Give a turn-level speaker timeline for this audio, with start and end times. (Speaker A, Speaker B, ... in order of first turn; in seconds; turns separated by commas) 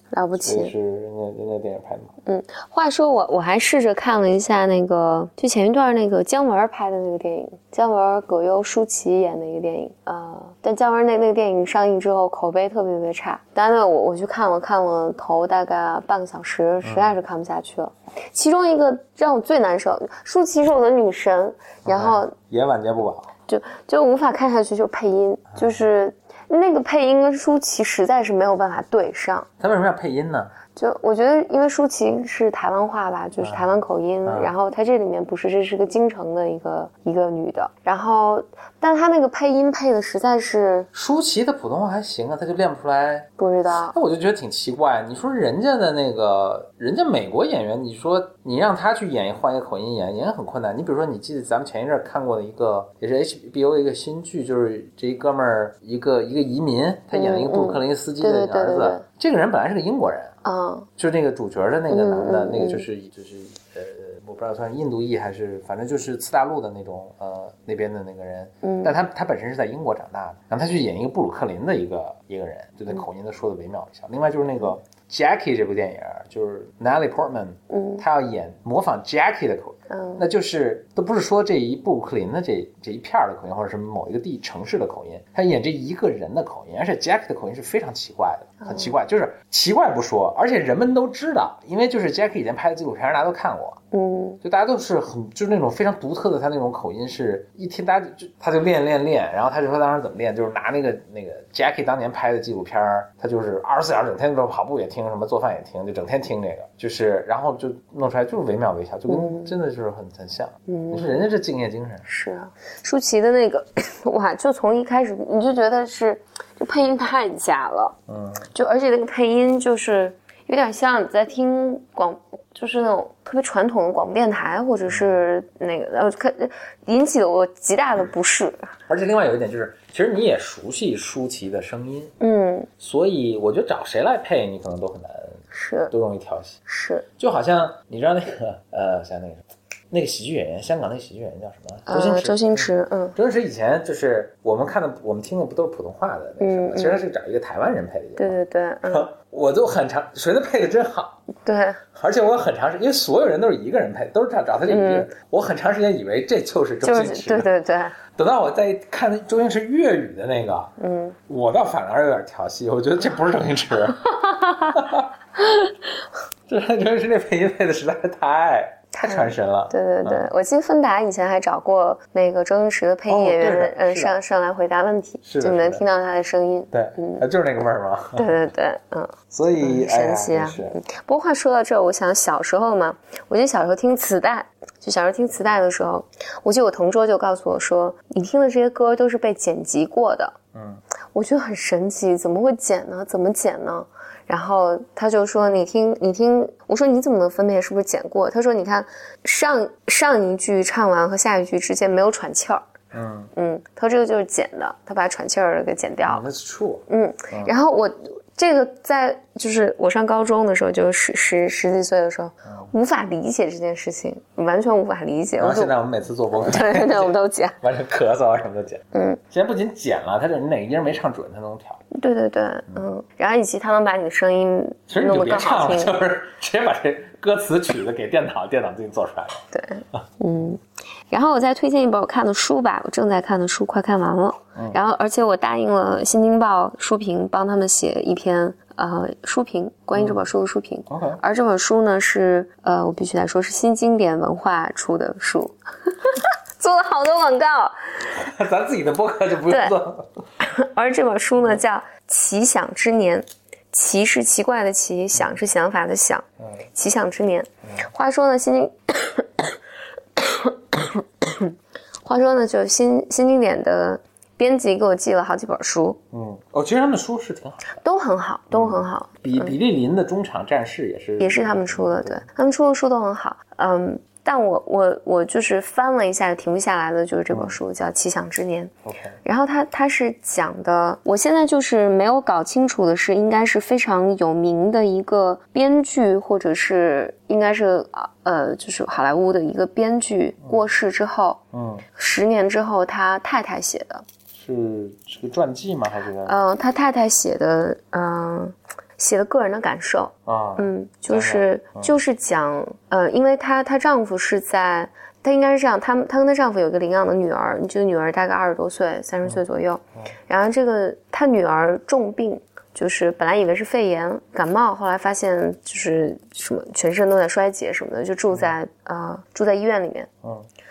Speaker A: 0.1-0.7, Speaker B: 0.4-2.1, Speaker A: 2.2-22.3, Speaker B: 16.8-17.1, Speaker B: 21.9-23.3, Speaker A: 23.5-29.5, Speaker B: 25.5-25.8, Speaker B: 29.6-30.5, Speaker A: 30.8-40.9, Speaker B: 33.4-33.7, Speaker B: 34.2-34.5, Speaker B: 40.9-43.3, Speaker A: 43.4-44.0, Speaker B: 43.9-60.4, Speaker A: 57.1-59.0, Speaker A: 60.4-60.9, Speaker B: 61.0-93.8, Speaker A: 61.9-62.9, Speaker A: 68.6-68.9, Speaker A: 77.7-78.0, Speaker A: 79.9-80.2, Speaker A: 88.6-88.9, Speaker A: 93.9-94.4, Speaker B: 94.4-112.1, Speaker A: 109.1-109.5, Speaker A: 110.7-111.2, Speaker A: 112.1-118.0, Speaker B: 118.1-118.5, Speaker A: 118.5-128.7, Speaker B: 124.9-125.2, Speaker B: 128.9-132.1, Speaker A: 132.2-132.7, Speaker B: 132.8-136.6, Speaker A: 135.5-135.9, Speaker A: 136.7-137.1, Speaker B: 137.2-151.2, Speaker A: 141.9-143.2, Speaker A: 146.4-147.0, Speaker A: 148.2-149.1, Speaker A: 151.4-151.8, Speaker B: 151.9-157.5, Speaker A: 154.7-155.1, Speaker A: 156.8-157.9, Speaker B: 158.2-160.7, Speaker A: 160.8-161.2, Speaker B: 161.3-164.0, Speaker A: 164.1-164.8, Speaker B: 164.7-165.1, Speaker B: 166.5-170.3, Speaker A: 168.9-177.2, Speaker B: 173.1-174.2, Speaker B: 175.2-175.8, Speaker B: 176.7-178.3, Speaker A: 178.2-190.3, Speaker B: 179.3-180.8, Speaker B: 190.5-190.8, Speaker A: 191.1-202.6, Speaker B: 202.9-203.3, Speaker A: 203.3-206.2, Speaker B: 206.1-207.5, Speaker A: 206.9-215.8, Speaker B: 212.4-212.7, Speaker B: 215.4-221.8, Speaker A: 216.3-217.6, Speaker A: 218.9-219.2, Speaker A: 221.9-226.0, Speaker B: 224.9-230.0, Speaker A: 229.5-248.1, Speaker B: 239.9-240.2, Speaker B: 240.9-241.2, Speaker B: 248.1-250.1, Speaker A: 249.5-249.7, Speaker A: 250.4-259.6, Speaker A: 260.1-266.0, Speaker B: 266.1-267.8, Speaker A: 267.8-269.5, Speaker B: 268.5-272.2, Speaker A: 271.2-278.7, Speaker B: 277.3-277.6, Speaker B: 278.9-279.2, Speaker A: 279.2-291.4, Speaker B: 291.5-291.8, Speaker A: 291.9-294.0, Speaker B: 294.3-296.4, Speaker A: 296.2-320.1, Speaker B: 300.2-302.0